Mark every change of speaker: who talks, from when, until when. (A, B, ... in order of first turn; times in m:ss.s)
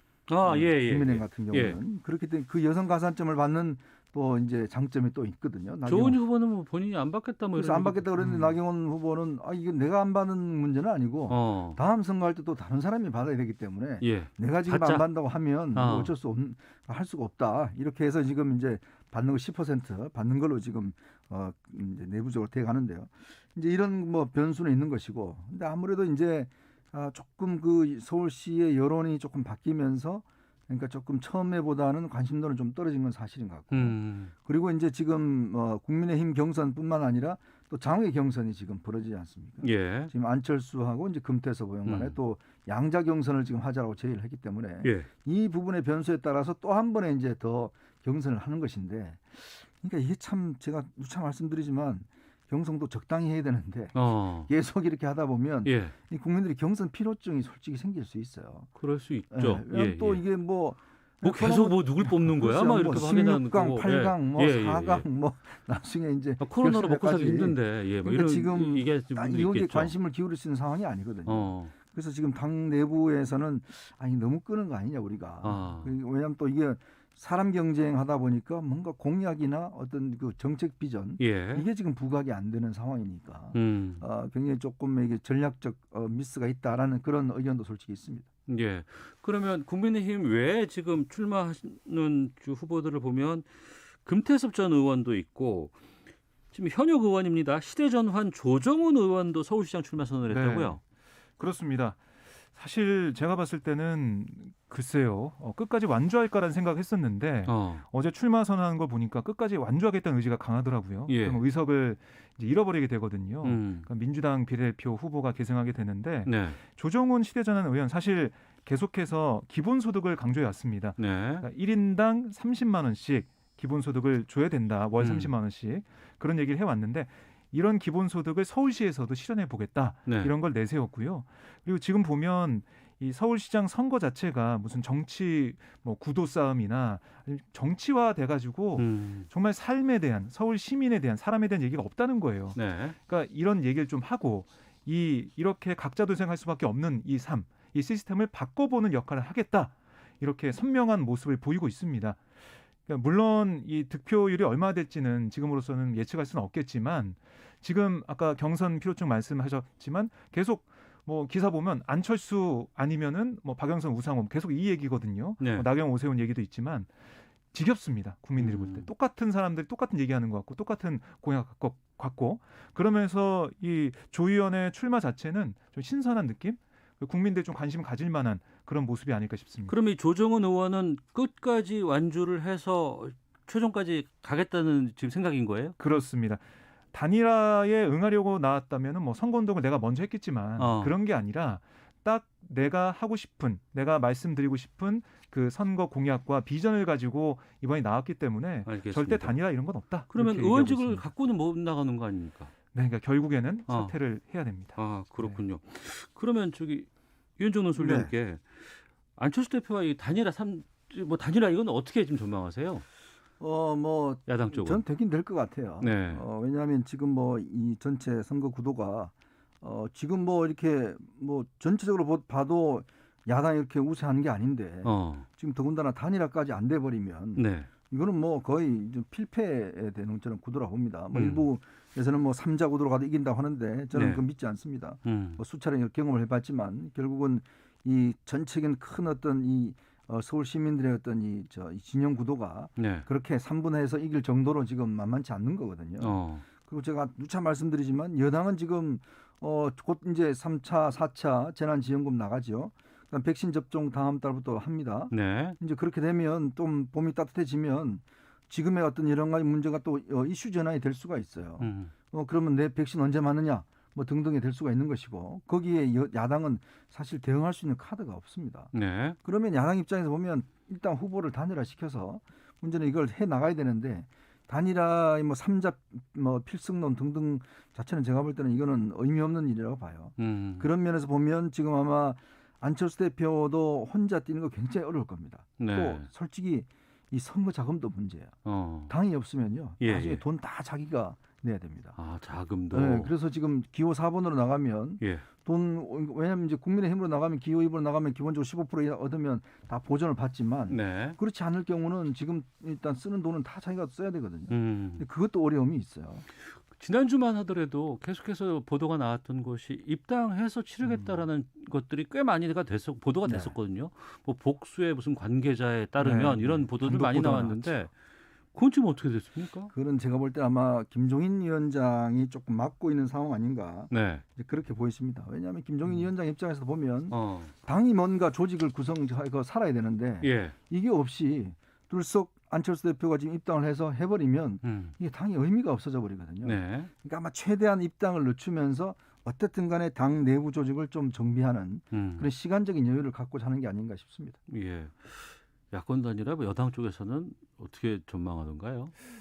0:00.3-0:01.8 A
0:00.4-0:06.2 B
0:05.9-0:08.6 A
0:07.6-0:58.7 B
0:11.3-0:11.8 A
0:14.0-0:15.1 A
0:15.8-0:16.1 A
0:33.7-0:34.3 A
0:39.6-0:40.1 A
0:41.9-0:42.2 A
0:44.8-0:45.1 A
0:53.9-0:54.5 A
0:55.6-0:56.0 A
0:58.8-1:00.2 A
0:59.3-1:28.3 B
1:01.2-1:05.1 A
1:06.4-1:10.0 A
1:11.3-1:11.7 A
1:15.4-1:15.9 A
1:21.2-1:21.7 A
1:23.5-1:24.0 A
1:28.5-1:35.8 A
1:36.5-1:40.8 A
1:40.3-1:40.8 C
1:41.4-1:42.0 C
1:42.5-2:32.2 C
1:47.5-1:47.8 A
1:51.1-1:51.4 A
1:53.4-1:53.9 A
1:56.3-1:56.6 A
2:01.0-2:01.5 A
2:05.0-2:05.3 A
2:10.1-2:10.3 A
2:18.8-2:19.3 A
2:22.6-2:23.0 A
2:32.9-2:46.9 C
2:45.4-2:45.7 A
2:47.5-2:59.8 C
2:48.4-2:48.9 A
2:59.7-3:05.8 A
3:05.8-3:21.1 C
3:10.6-3:10.9 A
3:18.7-3:19.4 A
3:20.1-3:22.5 A
3:22.7-3:25.4 C
3:23.7-3:24.0 A
3:24.8-3:32.8 A
3:27.8-3:28.1 B
3:33.4-4:28.7 B
3:34.3-3:34.8 A
3:35.8-3:36.2 A
3:44.8-3:45.3 A
3:47.4-3:47.7 A
3:51.1-3:51.5 A
3:53.9-3:54.2 A
3:55.0-3:55.4 A
4:02.8-4:03.1 A
4:06.0-4:06.4 A
4:15.1-4:15.6 A
4:21.6-4:21.9 A
4:28.7-4:29.2 A
4:29.2-4:48.4 B
4:40.2-4:40.7 A
4:45.6-4:46.1 A
4:48.4-4:48.9 A
4:48.9-4:52.0 B
4:49.8-4:50.2 A
4:52.0-4:53.1 A
4:52.7-5:06.2 B
4:55.0-4:55.3 A
5:00.7-5:01.2 A
5:04.5-5:05.1 A
5:06.4-5:17.9 A
5:10.8-5:11.2 C
5:13.3-5:13.5 B
5:16.0-5:17.6 C
5:18.5-5:19.7 A
5:19.7-5:44.4 B
5:23.9-5:24.2 A
5:27.1-5:27.5 A
5:30.2-5:30.6 A
5:34.6-5:34.9 A
5:36.4-5:36.9 A
5:41.9-5:42.3 A
5:44.5-5:48.9 A